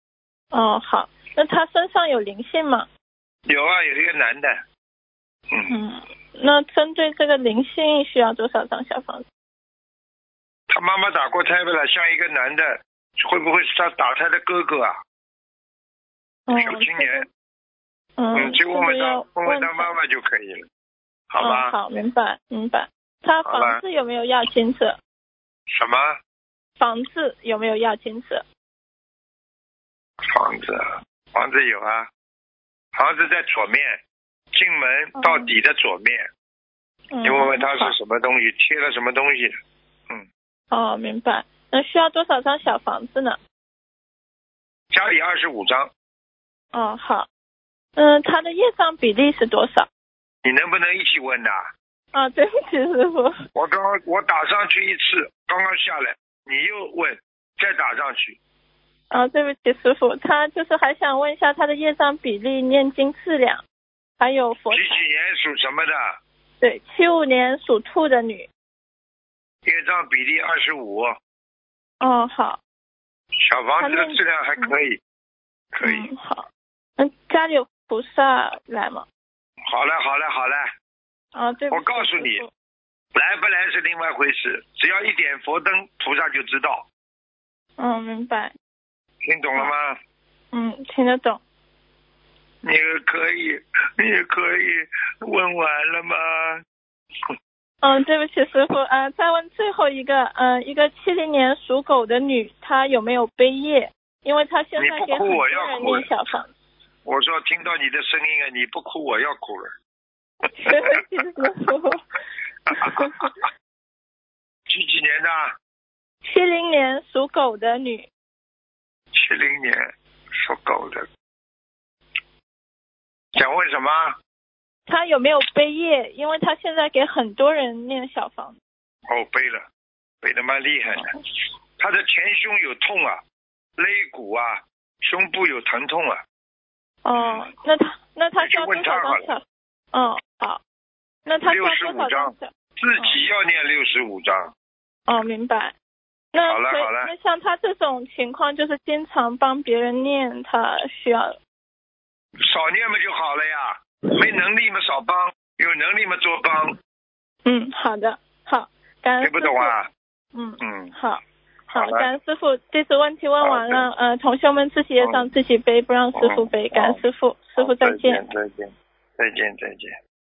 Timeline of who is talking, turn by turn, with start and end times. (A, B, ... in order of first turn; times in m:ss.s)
0:00.5-0:02.9 A
0:03.5-0:04.6 B
0:05.7-0:09.2 A
0:10.7-0:15.0 B
0:16.5-0:17.3 A
0:16.5-0:17.3 B
0:18.2-0:19.9 A
0:18.3-0:20.6 B
0:21.3-0:21.7 B
0:21.4-0:24.9 A
0:23.5-0:23.8 B
0:25.7-0:26.2 B
0:26.8-0:28.4 A
0:30.3-0:32.1 B
0:33.0-0:34.0 B
0:34.5-0:36.3 B
0:35.2-0:35.5 A
0:37.1-0:38.0 A
0:37.2-0:39.6 B
0:40.7-0:43.4 A
0:44.9-0:45.9 B
0:46.7-0:47.3 A
0:48.0-0:49.9 A
0:50.4-0:51.7 B
0:52.1-0:53.4 A
0:53.6-0:58.4 B
0:59.1-1:03.6 A
1:04.2-1:05.0 A
1:04.7-1:06.2 B
1:06.6-1:08.5 A
1:09.6-1:11.2 B
1:12.0-1:12.6 A
1:13.4-1:15.0 B
1:13.8-1:14.7 A
1:15.7-1:16.1 B
1:15.8-1:16.5 A
1:17.0-1:19.0 A
1:19.7-1:20.7 B
1:21.3-1:22.5 A
1:21.7-1:22.4 B
1:23.2-1:26.9 B
1:27.8-1:28.5 A
1:29.2-1:30.0 B
1:30.5-1:31.4 A
1:32.6-1:36.6 B
1:37.8-1:46.5 A
1:44.8-1:46.1 B
1:47.0-1:49.7 B
1:50.6-1:52.0 A
1:50.6-1:51.0 B
1:52.7-1:53.3 B
1:52.7-1:53.3 A
1:54.7-1:55.6 B
1:56.2-1:58.0 A
1:59.1-1:59.8 B
2:00.4-2:01.1 B
2:03.4-2:04.2 B
2:04.9-2:08.6 A
2:09.1-2:09.6 B
2:10.2-2:11.2 B
2:11.8-2:13.2 B
2:13.8-2:16.2 B
2:17.0-2:19.4 A
2:17.2-2:17.5 B
2:18.4-2:19.3 B
2:19.9-2:20.6 A
2:21.3-2:23.2 A
2:21.4-2:24.5 B
2:25.1-2:25.7 A
2:26.3-2:31.4 A
2:26.5-2:27.1 B
2:32.4-2:36.7 B
2:37.5-2:39.7 A
2:39.2-2:39.9 B
2:40.3-2:48.2 A
2:40.6-2:40.9 B
2:41.7-2:42.1 B
2:43.4-2:43.8 B
2:45.0-2:45.3 B
2:46.2-2:47.0 B
2:47.6-2:50.0 B